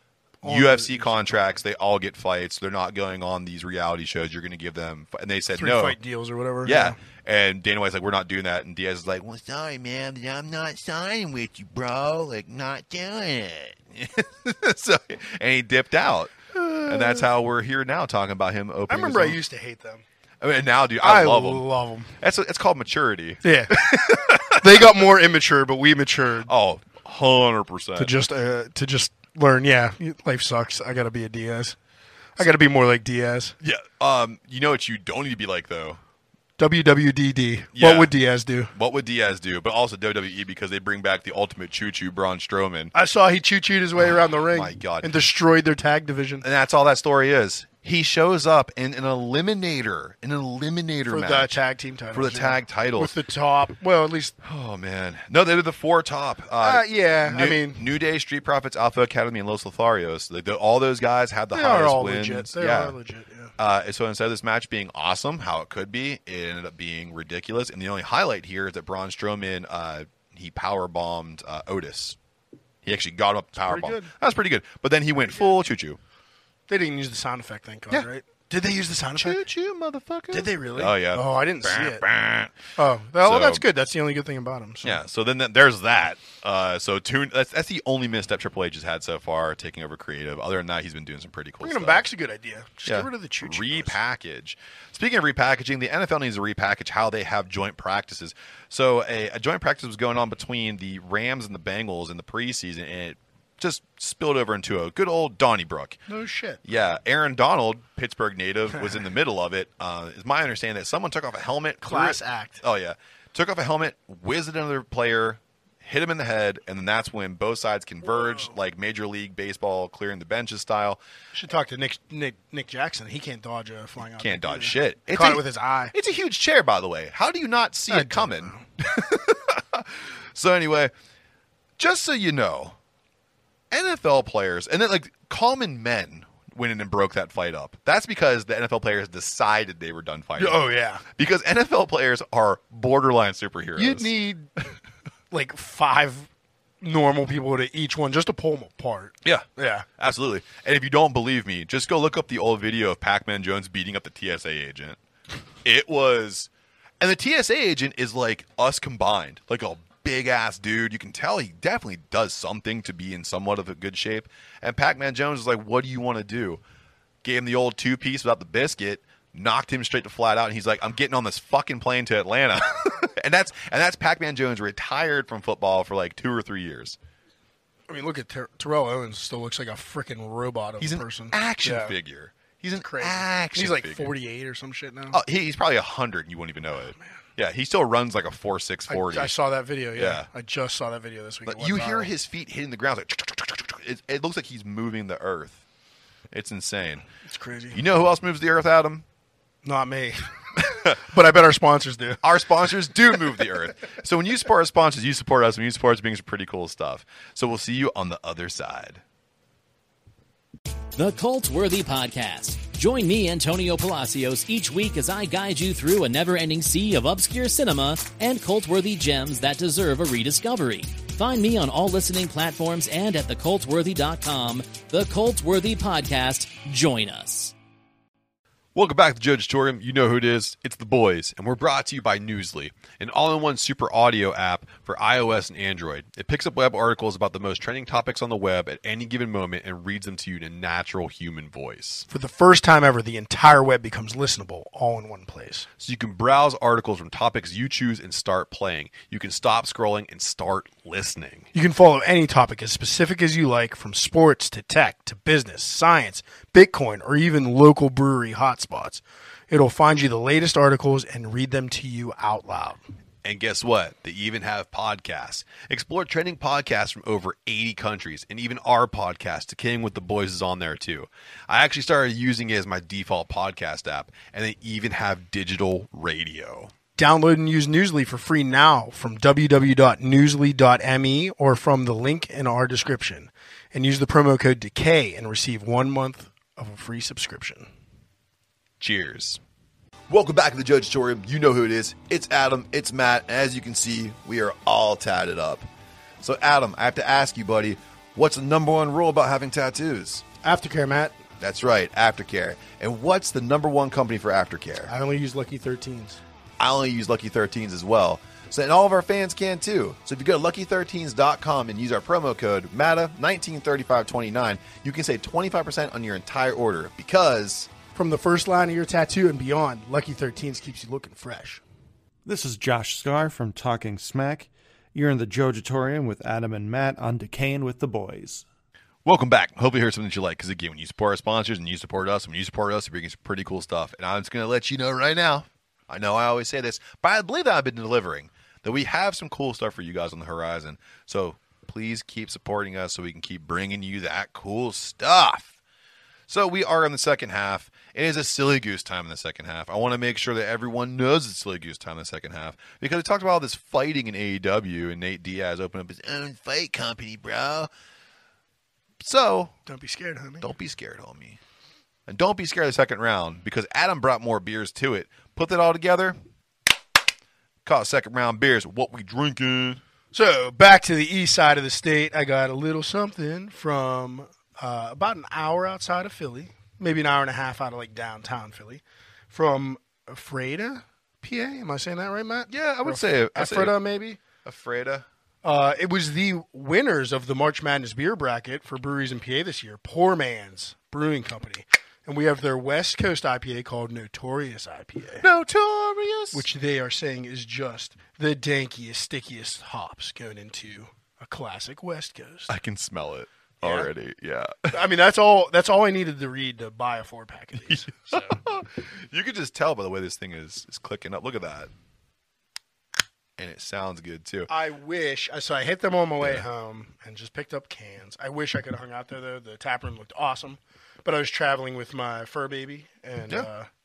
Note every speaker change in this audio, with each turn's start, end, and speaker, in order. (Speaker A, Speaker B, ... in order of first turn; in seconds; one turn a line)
Speaker A: 0.4-1.4
Speaker B: 0.4-6.0
Speaker A: 5.5-7.0
Speaker B: 6.7-19.4
Speaker A: 16.6-17.2
Speaker A: 18.9-20.0
Speaker B: 20.4-21.7
Speaker A: 21.0-22.1
Speaker B: 22.2-24.9
Speaker A: 23.4-26.5
Speaker B: 26.5-28.1
Speaker A: 28.0-31.8
Speaker A: 32.4-33.5
Speaker B: 33.6-36.0
Speaker A: 36.6-38.7
Speaker B: 37.8-38.1
Speaker B: 38.7-42.9
Speaker A: 42.9-46.5
Speaker B: 44.1-45.1
Speaker B: 46.4-51.5
Speaker A: 51.1-54.3
Speaker B: 52.1-53.1
Speaker B: 54.4-63.0
Speaker A: 56.6-57.8
Speaker A: 61.5-63.5
Speaker B: 63.6-72.2
Speaker B: 72.8-76.0
Speaker A: 73.6-74.1
Speaker A: 76.7-79.4
Speaker B: 79.2-82.5
Speaker A: 80.3-82.0
Speaker A: 82.8-85.0
Speaker B: 83.2-83.6
Speaker B: 84.8-92.1
Speaker A: 91.6-94.0
Speaker B: 92.9-106.0
Speaker A: 106.1-106.6
Speaker B: 106.6-121.0
Speaker A: 111.8-112.6
Speaker A: 121.3-125.9
Speaker B: 124.2-130.9
Speaker A: 127.9-128.6
Speaker B: 131.8-132.8
Speaker B: 133.7-144.1
Speaker A: 140.4-141.0
Speaker A: 143.8-144.7
Speaker A: 145.3-146.3
Speaker A: 146.8-149.9
Speaker B: 149.2-155.0
Speaker B: 155.6-156.5
Speaker B: 157.0-166.6
Speaker B: 167.2-177.0
Speaker A: 177.9-181.9
Speaker B: 180.8-184.1
Speaker A: 182.8-185.2
Speaker B: 185.1-189.3
Speaker A: 188.9-192.1
Speaker B: 189.9-190.3
Speaker B: 191.5-195.6
Speaker B: 196.3-197.0
Speaker A: 197.2-197.8
Speaker B: 197.7-199.1
Speaker A: 199.6-202.2
Speaker B: 202.2-209.0
Speaker C: 210.9-227.5
Speaker B: 228.8-242.1
Speaker A: 242.1-245.7
Speaker B: 245.8-251.5
Speaker A: 251.5-262.8
Speaker B: 263.2-276.7
Speaker A: 277.0-287.7
Speaker B: 288.8-289.4
Speaker B: 290.1-295.7
Speaker B: 296.2-300.2
Speaker A: 300.4-301.2
Speaker B: 301.4-304.9
Speaker A: 304.8-306.2
Speaker B: 306.6-317.7
Speaker A: 317.9-321.6
Speaker D: 322.2-328.4
Speaker B: 329.0-345.5
Speaker B: 346.3-357.7
Speaker B: 359.0-359.6
Speaker A: 359.7-360.5
Speaker B: 360.4-361.4
Speaker B: 362.1-366.2
Speaker B: 367.6-369.8
Speaker A: 370.1-384.2
Speaker B: 382.5-383.8
Speaker B: 384.4-385.1
Speaker A: 385.4-395.3
Speaker B: 395.2-396.4
Speaker A: 396.3-402.5
Speaker B: 402.5-404.7
Speaker A: 403.6-403.9
Speaker A: 404.7-408.4
Speaker B: 407.7-411.7
Speaker B: 413.4-414.5
Speaker A: 414.5-423.7